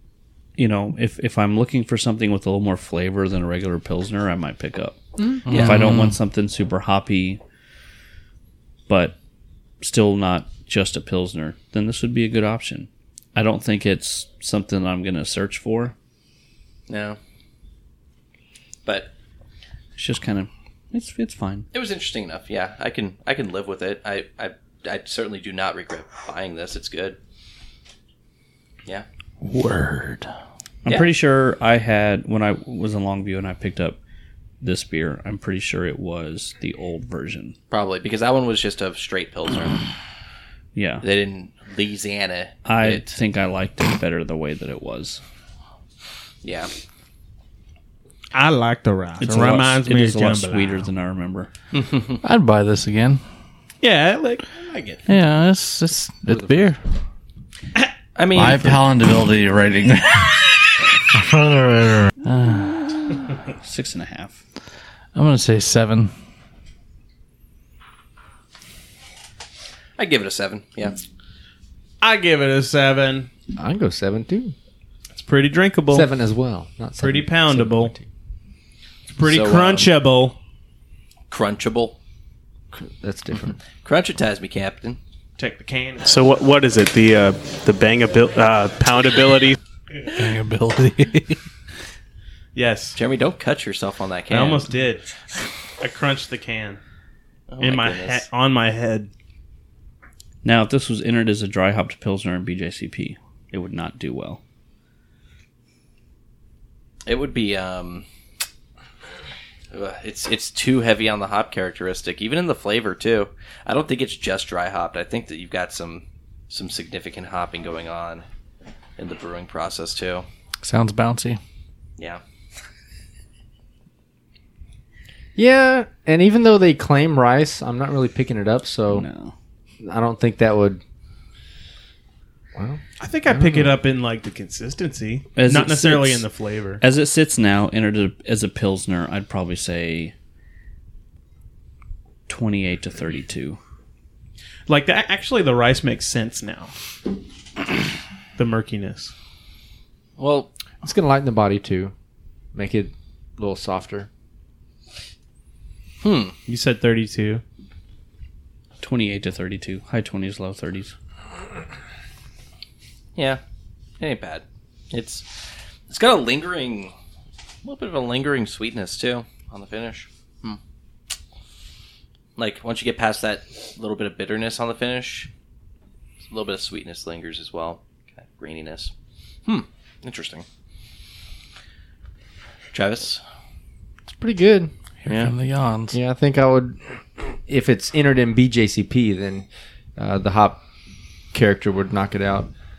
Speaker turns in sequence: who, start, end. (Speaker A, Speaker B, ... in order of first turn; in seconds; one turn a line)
Speaker A: 0.6-7.4
Speaker B: 5.4-6.2
Speaker C: 5.5-5.8
Speaker A: 8.9-9.2
Speaker A: 9.8-15.9
Speaker C: 16.9-17.2
Speaker C: 18.9-19.1
Speaker A: 19.9-21.7
Speaker C: 21.7-27.2
Speaker B: 29.4-30.3
Speaker A: 30.8-34.0
Speaker A: 34.6-37.5
Speaker C: 37.7-39.8
Speaker A: 40.7-41.0
Speaker C: 41.0-43.1
Speaker A: 42.6-45.2
Speaker C: 46.4-46.7
Speaker D: 48.3-50.9
Speaker A: 49.2-51.5
Speaker C: 51.7-52.2
Speaker B: 52.2-53.2
Speaker D: 53.8-55.0
Speaker B: 55.1-56.8
Speaker E: 56.3-56.7
Speaker C: 58.1-58.9
Speaker B: 58.3-63.2
Speaker A: 63.6-64.4
Speaker B: 65.1-66.1
Speaker C: 70.0-71.0
Speaker D: 72.0-73.3
Speaker E: 73.5-74.5
Speaker D: 75.1-76.1
Speaker E: 75.9-78.1
Speaker D: 77.0-77.9
Speaker D: 79.1-80.3
Speaker C: 79.2-79.9
Speaker C: 81.3-82.0
Speaker E: 82.7-83.6
Speaker C: 83.8-85.0
Speaker D: 85.4-86.1
Speaker F: 86.0-89.5
Speaker B: 90.1-91.4
Speaker D: 92.5-93.0
Speaker C: 93.0-94.7
Speaker D: 94.3-95.1
Speaker D: 95.8-96.8
Speaker C: 97.5-98.2
Speaker D: 97.6-99.1
Speaker A: 100.4-104.4
Speaker C: 107.0-108.0
Speaker C: 109.7-118.2
Speaker C: 119.0-120.2
Speaker B: 120.6-121.4
Speaker E: 125.3-129.1
Speaker A: 128.9-129.3
Speaker E: 129.8-130.8
Speaker E: 132.5-133.7
Speaker D: 133.0-136.8
Speaker A: 135.3-136.2
Speaker A: 136.8-140.1
Speaker A: 142.3-143.6
Speaker D: 144.7-146.7
Speaker D: 148.3-149.1
Speaker C: 150.2-150.5
Speaker E: 150.8-151.9
Speaker E: 152.5-154.1
Speaker C: 156.0-156.3
Speaker D: 156.4-157.4
Speaker A: 158.8-160.9
Speaker C: 164.0-165.2
Speaker C: 165.9-166.9
Speaker C: 167.6-170.6
Speaker C: 172.4-175.3
Speaker C: 176.3-178.9
Speaker C: 179.4-180.4
Speaker C: 182.7-183.2
Speaker E: 184.1-184.7
Speaker C: 185.1-185.3
Speaker B: 185.1-186.0
Speaker E: 185.9-190.6
Speaker E: 191.3-192.5